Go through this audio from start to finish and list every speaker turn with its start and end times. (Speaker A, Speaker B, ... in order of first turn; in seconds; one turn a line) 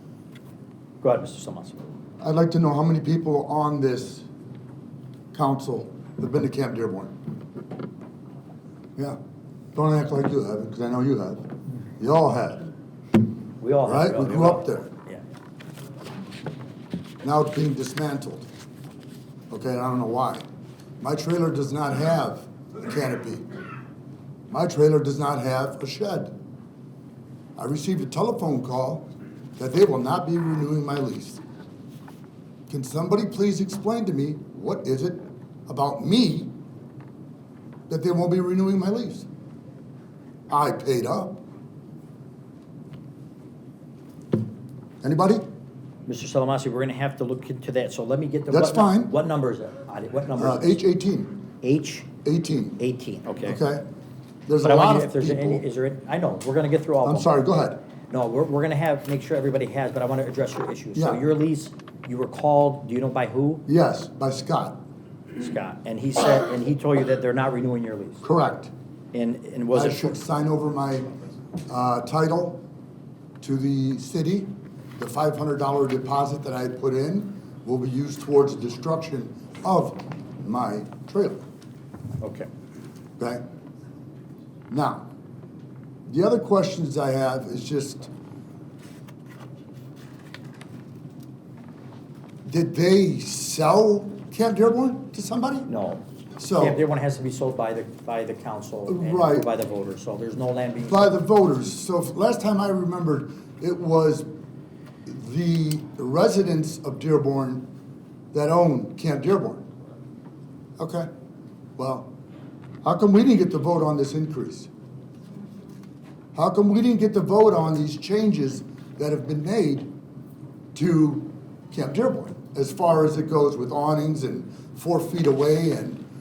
Speaker A: 1.0-1.8
Speaker B: 2.2-4.3
Speaker B: 5.3-7.1
Speaker B: 9.7-12.7
Speaker A: 13.6-15.2
Speaker B: 13.8-14.9
Speaker B: 17.2-18.5
Speaker B: 19.5-20.4
Speaker B: 21.0-23.4
Speaker B: 24.5-26.3
Speaker B: 27.6-29.1
Speaker B: 29.6-31.4
Speaker B: 32.7-36.5
Speaker B: 37.9-39.3
Speaker B: 40.5-41.4
Speaker B: 45.0-45.4
Speaker A: 46.1-50.8
Speaker B: 48.5-49.1
Speaker B: 50.4-51.4
Speaker A: 51.6-52.1
Speaker B: 52.2-52.8
Speaker A: 52.8-53.6
Speaker B: 53.4-53.8
Speaker B: 54.5-55.6
Speaker A: 54.6-57.3
Speaker B: 57.0-57.8
Speaker A: 58.1-63.6
Speaker B: 60.9-61.2
Speaker B: 63.7-64.8
Speaker A: 65.4-68.2
Speaker B: 68.2-68.7
Speaker A: 69.1-70.1
Speaker B: 69.7-71.1
Speaker B: 71.7-72.6
Speaker B: 73.4-81.4
Speaker A: 82.2-82.5
Speaker B: 83.2-83.4
Speaker B: 84.7-85.0
Speaker B: 86.1-88.1
Speaker B: 92.4-95.7
Speaker A: 95.7-96.0
Speaker B: 96.4-96.8
Speaker A: 96.6-101.2
Speaker B: 98.9-99.5
Speaker B: 100.9-104.3
Speaker B: 105.0-107.7
Speaker B: 108.3-109.6
Speaker B: 110.8-111.1
Speaker B: 111.8-112.1
Speaker B: 112.8-114.7
Speaker B: 116.3-119.9
Speaker B: 120.7-126.0